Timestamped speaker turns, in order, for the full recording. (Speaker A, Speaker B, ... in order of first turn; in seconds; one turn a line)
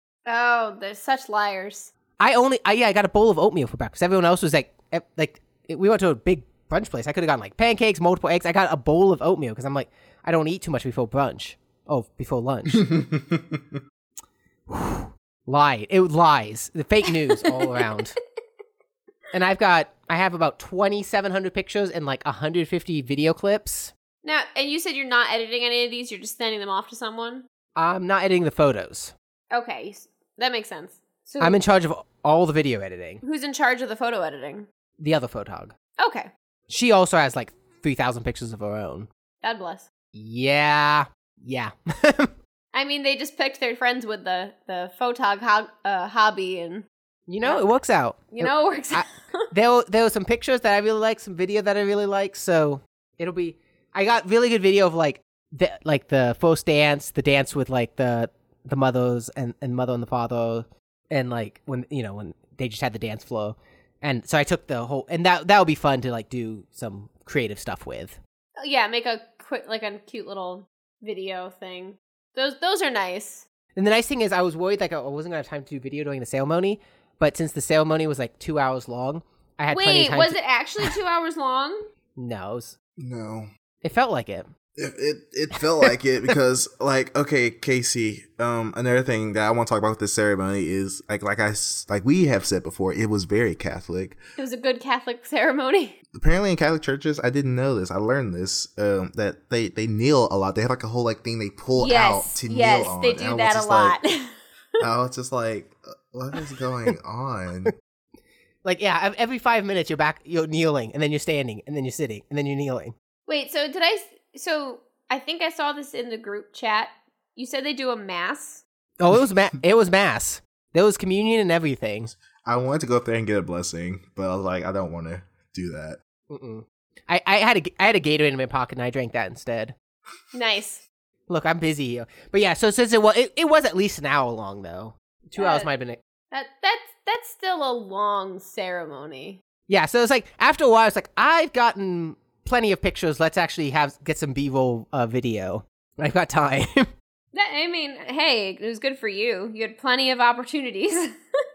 Speaker A: 0.3-1.9
Speaker B: 2.2-12.9
Speaker C: 12.7-13.6
Speaker B: 14.7-18.2
Speaker A: 17.5-18.0
Speaker B: 19.3-23.9
Speaker A: 24.2-27.4
Speaker B: 27.8-29.1
Speaker A: 29.5-31.6
Speaker B: 31.4-33.2
Speaker A: 33.2-34.7
Speaker B: 35.0-35.7
Speaker A: 36.0-36.3
Speaker B: 36.7-39.1
Speaker A: 39.4-39.9
Speaker B: 40.1-42.3
Speaker A: 42.7-46.9
Speaker B: 47.3-68.2
Speaker A: 48.3-49.5
Speaker A: 68.6-73.4
Speaker B: 73.8-80.9
Speaker A: 79.7-81.9
Speaker B: 82.2-82.8
Speaker C: 83.0-83.5
Speaker B: 83.8-84.5
Speaker C: 84.8-94.2
Speaker A: 94.4-96.0
Speaker C: 96.1-104.0
Speaker A: 101.8-104.3
Speaker C: 104.8-107.7
Speaker B: 108.6-112.9
Speaker A: 113.3-118.6
Speaker B: 119.0-122.1
Speaker C: 122.4-126.0
Speaker B: 126.3-129.7
Speaker A: 130.3-130.8
Speaker B: 131.3-136.0
Speaker A: 135.3-135.7
Speaker A: 136.3-139.4
Speaker B: 139.7-146.9
Speaker A: 147.3-151.4